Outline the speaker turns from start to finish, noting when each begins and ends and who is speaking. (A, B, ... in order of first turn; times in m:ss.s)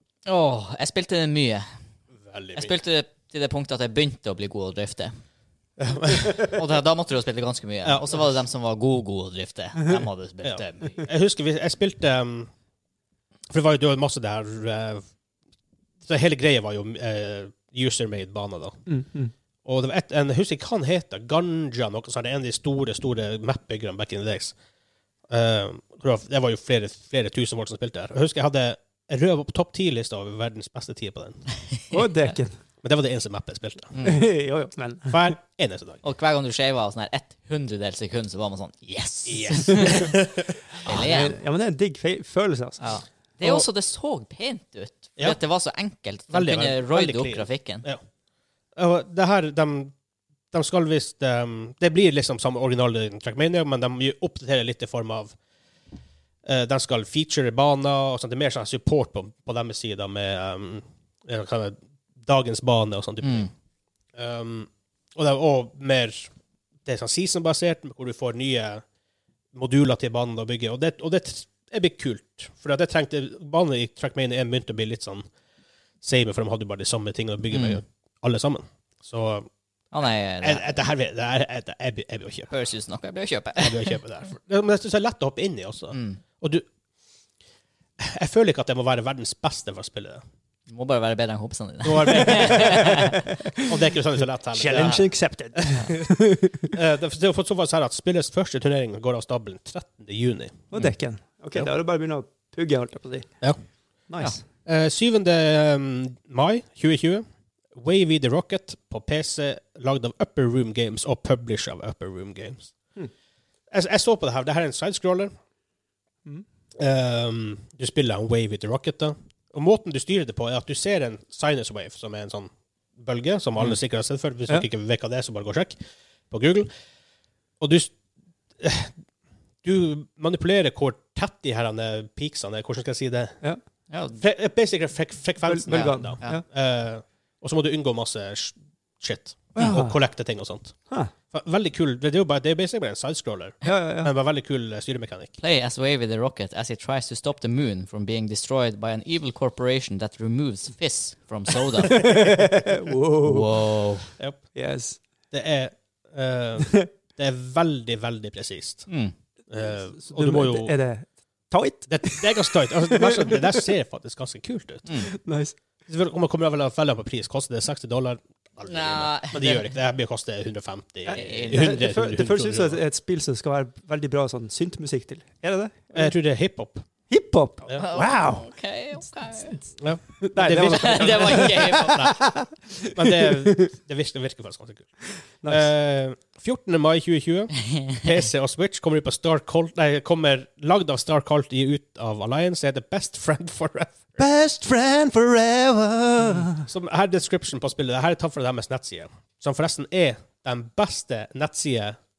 0:00.2-0:01.7 A
0:02.2-0:02.7 B
0:02.6-0:05.1 A
0:05.8-0:06.6 B
0:06.4-0:11.0 A
0:07.8-0:08.2 B
0:10.4-0:12.5 B
0:13.5-0:15.0 B
0:16.0-0:18.8 B
0:18.9-0:19.3 C
0:19.6-0:24.5 B
0:25.3-0:31.4 B
0:31.9-0:32.6 C
0:32.8-0:33.9 B
0:33.9-0:34.2 A
0:34.0-0:35.3 C
0:35.1-0:36.0 B
0:36.0-0:40.1 A
0:39.2-0:40.6 B
0:40.8-0:41.4 A
0:40.8-0:42.8 C
0:42.8-0:47.9 A
0:46.3-0:48.0 B
0:48.8-0:49.9 B
0:50.5-0:55.3 B
0:56.4-1:03.5 B
1:03.2-1:03.5 A
1:04.1-1:06.3 B
1:06.8-1:08.8 B
1:09.5-1:15.2 B
1:16.0-1:19.5 B
1:17.5-1:17.8 A
1:19.9-1:20.7 A
1:20.4-1:22.5 B
1:22.5-1:24.0 A
1:23.6-1:26.6 B
1:25.9-1:26.2 A
1:28.0-1:30.2 B
1:30.7-1:33.2 A
1:31.8-1:35.0 B
1:32.3-1:32.7 C
1:34.5-1:36.8 C
1:36.7-1:40.7 B
1:40.7-1:43.3 C
1:44.1-1:44.4 C
1:44.6-1:47.2 B
1:47.7-1:52.7 B
1:53.7-1:55.3 B
1:56.8-2:05.7 B
2:06.3-2:06.7 B
2:07.6-2:07.9 B
2:08.6-2:08.9 B
2:09.6-2:13.4 B
2:13.9-2:14.2 A
2:14.2-2:20.8 B
2:15.4-2:16.4 C
2:19.5-2:20.0 C
2:21.3-2:25.3 B
2:23.6-2:24.1 C
2:25.4-2:32.3 A
2:31.9-2:33.5 C
2:33.2-2:34.1 A
2:34.2-2:34.5 B
2:34.5-2:35.0 C
2:35.3-2:38.9 B
2:38.9-2:39.1 A
2:39.5-2:40.7 B
2:40.0-2:43.6 C
2:41.9-2:44.8 B
2:44.8-2:45.1 A
2:45.1-2:45.5 C
2:45.9-2:52.8 B
2:48.7-2:49.6 A
2:51.1-2:51.8 A
2:51.5-2:56.1 C
2:55.9-2:56.8 B
2:57.1-2:58.5 C
2:57.8-2:59.6 A
2:59.8-3:02.3 B
3:00.2-3:03.7 C
3:00.7-3:02.0 A
3:02.9-3:14.0 B
3:05.4-3:05.7 C
3:07.7-3:08.0 A
3:14.2-3:16.6 C
3:16.4-3:22.0 B